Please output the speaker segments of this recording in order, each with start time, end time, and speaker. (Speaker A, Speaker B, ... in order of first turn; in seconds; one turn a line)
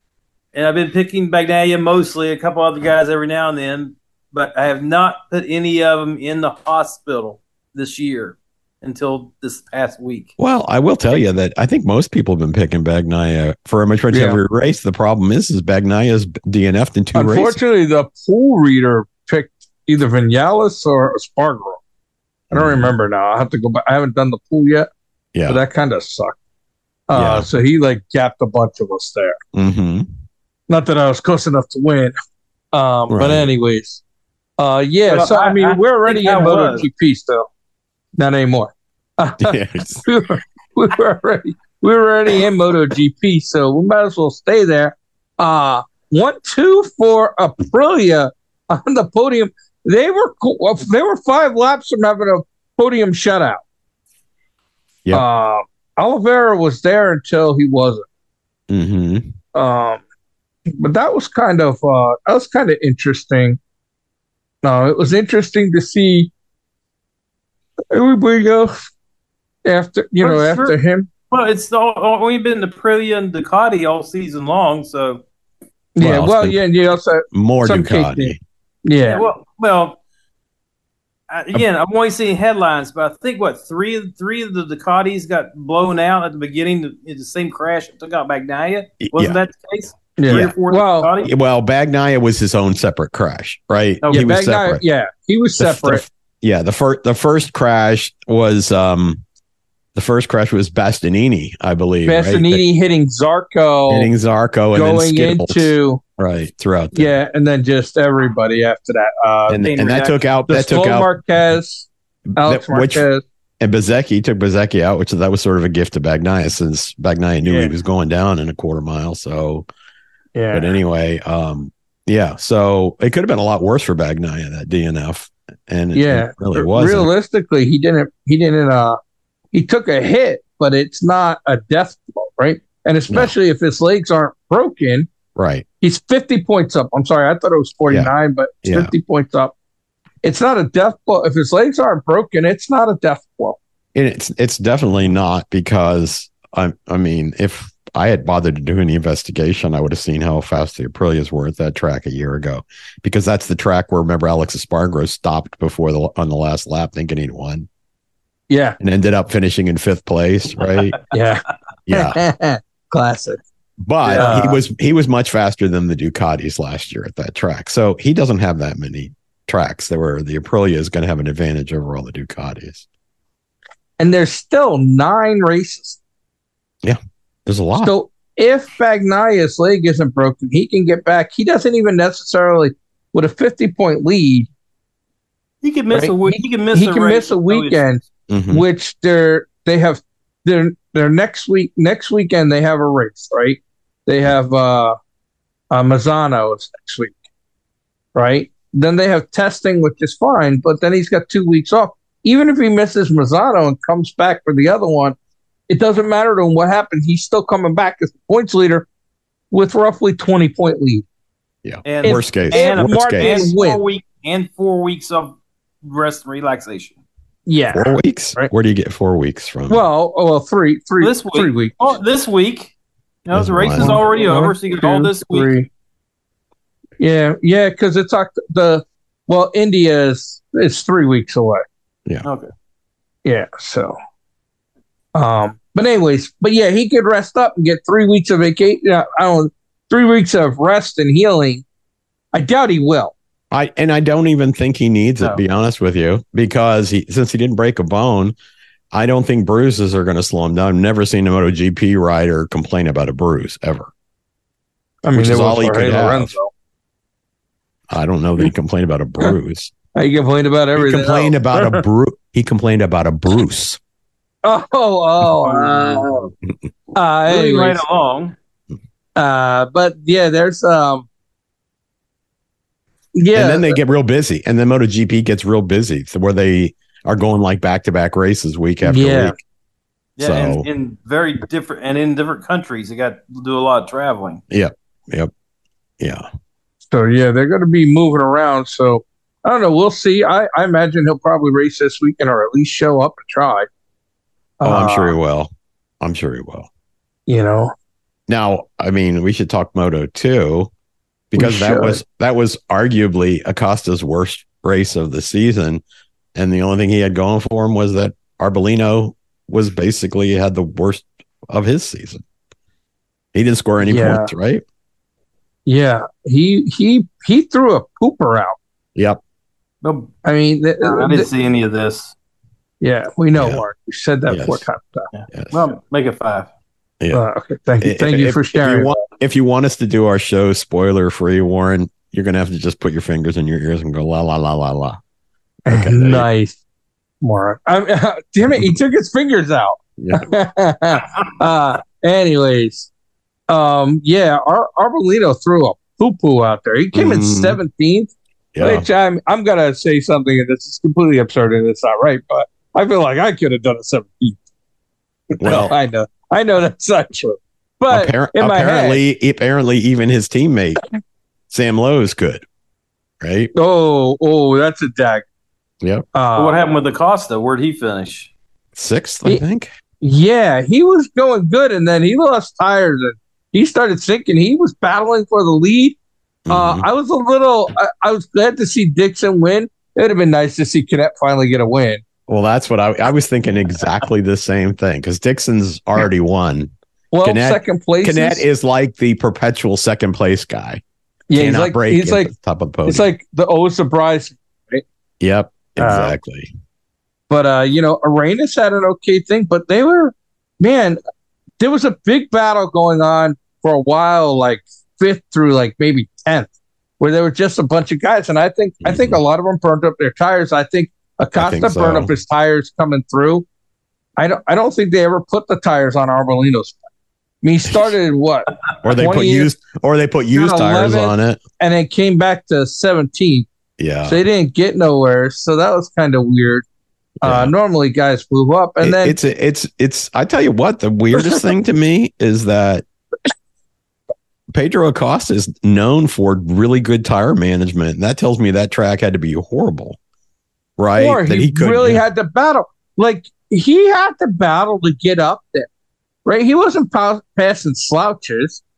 Speaker A: 0.5-10.3
Speaker B: 10.4-17.6
Speaker C: 14.1-14.4
Speaker C: 17.1-21.8
Speaker B: 22.5-22.9
Speaker C: 22.5-24.9
Speaker B: 25.3-25.6
Speaker C: 25.5-26.4
Speaker C: 27.1-29.4
Speaker B: 27.1-27.5
Speaker B: 29.5-30.1
Speaker C: 30.7-32.1
Speaker C: 32.7-34.0
Speaker B: 33.1-33.5
Speaker C: 34.6-37.5
Speaker A: 35.1-36.9
Speaker C: 38.2-53.6
Speaker B: 39.4-40.1
Speaker C: 55.1-58.0
Speaker B: 58.7-59.3
Speaker C: 59.5-60.0
Speaker C: 60.8-63.6
Speaker C: 64.6-66.3
Speaker C: 67.9-68.8
Speaker C: 69.7-71.1
Speaker A: 70.2-70.8
Speaker A: 71.3-75.2
Speaker C: 76.0-79.2
Speaker B: 76.0-76.6
Speaker B: 77.3-78.4
Speaker A: 79.1-80.0
Speaker A: 81.3-91.3
Speaker B: 89.0-89.4
Speaker C: 90.2-91.1
Speaker B: 91.2-94.8
Speaker C: 94.1-96.0
Speaker B: 95.6-99.2
Speaker B: 100.0-102.6
Speaker C: 102.0-104.1
Speaker B: 103.9-107.1
Speaker C: 104.7-106.0
Speaker C: 106.9-109.7
Speaker B: 109.5-111.1
Speaker A: 109.6-110.2
Speaker C: 110.5-113.2
Speaker B: 112.3-113.0
Speaker B: 113.6-119.7
Speaker C: 117.5-117.7
Speaker C: 120.3-120.7
Speaker B: 120.5-127.1
Speaker C: 126.0-129.0
Speaker C: 129.5-135.1
Speaker B: 135.3-135.7
Speaker C: 135.8-139.5
Speaker B: 138.6-138.9
Speaker C: 140.2-143.6
Speaker B: 143.9-157.7
Speaker C: 158.5-158.8
Speaker B: 158.8-161.0
Speaker C: 161.1-163.4
Speaker B: 161.9-162.2
Speaker B: 163.8-172.9
Speaker A: 164.0-164.4
Speaker C: 164.1-164.6
Speaker C: 174.0-176.0
Speaker B: 176.8-177.9
Speaker C: 177.8-184.5
Speaker A: 185.6-187.8
Speaker C: 185.9-195.0
Speaker B: 188.3-188.7
Speaker C: 195.7-197.2
Speaker C: 198.2-205.2
Speaker C: 205.7-208.9
Speaker C: 209.5-211.1
Speaker B: 211.6-213.4
Speaker A: 211.9-217.0
Speaker C: 212.0-213.8
Speaker C: 217.5-218.5
Speaker B: 217.7-219.8
Speaker C: 219.7-222.0
Speaker A: 221.0-222.7
Speaker A: 223.3-225.6
Speaker B: 223.3-224.0
Speaker C: 223.8-225.7
Speaker C: 227.0-231.6
Speaker A: 232.2-232.5
Speaker C: 233.2-234.0
Speaker C: 235.2-241.7
Speaker C: 242.3-243.1
Speaker B: 243.5-248.3
Speaker B: 248.9-253.9
Speaker C: 255.0-256.5
Speaker B: 255.1-256.3
Speaker B: 257.9-259.7
Speaker C: 259.9-261.8
Speaker B: 260.8-263.8
Speaker C: 264.4-266.3
Speaker A: 265.4-266.1
Speaker C: 266.9-267.8
Speaker A: 267.3-268.4
Speaker C: 269.2-271.1
Speaker C: 273.1-273.8
Speaker B: 273.3-279.4
Speaker C: 278.8-279.4
Speaker A: 280.2-284.4
Speaker B: 280.2-280.7
Speaker B: 284.5-285.3
Speaker B: 286.0-286.2
Speaker C: 286.9-293.7
Speaker C: 294.6-295.1
Speaker B: 294.6-296.7
Speaker C: 297.3-297.7
Speaker B: 298.3-300.7
Speaker B: 301.3-305.8
Speaker C: 301.4-302.0
Speaker B: 306.4-312.2
Speaker B: 313.3-314.6
Speaker C: 313.8-314.3
Speaker C: 315.7-318.6
Speaker B: 319.0-319.2
Speaker A: 319.8-320.1
Speaker C: 320.2-321.3
Speaker A: 320.8-322.1
Speaker C: 322.8-325.1
Speaker B: 323.4-323.6
Speaker B: 324.3-324.6
Speaker A: 325.1-326.5
Speaker B: 325.3-325.6
Speaker C: 327.1-329.0
Speaker B: 327.8-335.0
Speaker C: 335.7-336.6
Speaker B: 335.7-336.3
Speaker C: 337.2-342.9
Speaker B: 338.5-338.7
Speaker B: 340.0-340.3
Speaker C: 343.5-354.4
Speaker B: 346.9-347.6
Speaker B: 348.5-348.9
Speaker C: 355.4-359.0
Speaker B: 355.4-355.8
Speaker B: 357.9-360.8
Speaker B: 361.5-362.4
Speaker B: 363.2-363.5
Speaker C: 363.6-365.2
Speaker B: 365.8-366.1
Speaker C: 366.1-366.6
Speaker A: 366.4-368.3
Speaker B: 368.8-369.7
Speaker C: 370.0-376.0
Speaker B: 376.5-376.9
Speaker C: 376.5-382.0
Speaker B: 382.3-386.7
Speaker C: 387.1-388.4
Speaker B: 387.2-390.8
Speaker C: 391.3-392.3
Speaker B: 391.4-393.1
Speaker C: 392.9-394.8
Speaker B: 395.2-396.5
Speaker C: 395.8-396.2
Speaker C: 397.3-401.0
Speaker C: 401.6-413.5
Speaker B: 408.8-409.2
Speaker B: 411.4-412.1
Speaker C: 414.2-416.8
Speaker C: 417.4-419.5
Speaker B: 418.8-421.4
Speaker C: 420.3-423.5
Speaker B: 423.8-424.2
Speaker C: 424.1-426.6
Speaker C: 427.2-429.2
Speaker B: 427.2-427.5
Speaker B: 428.8-432.9
Speaker B: 434.5-440.0
Speaker B: 440.8-442.0
Speaker C: 441.0-445.7
Speaker C: 446.2-448.6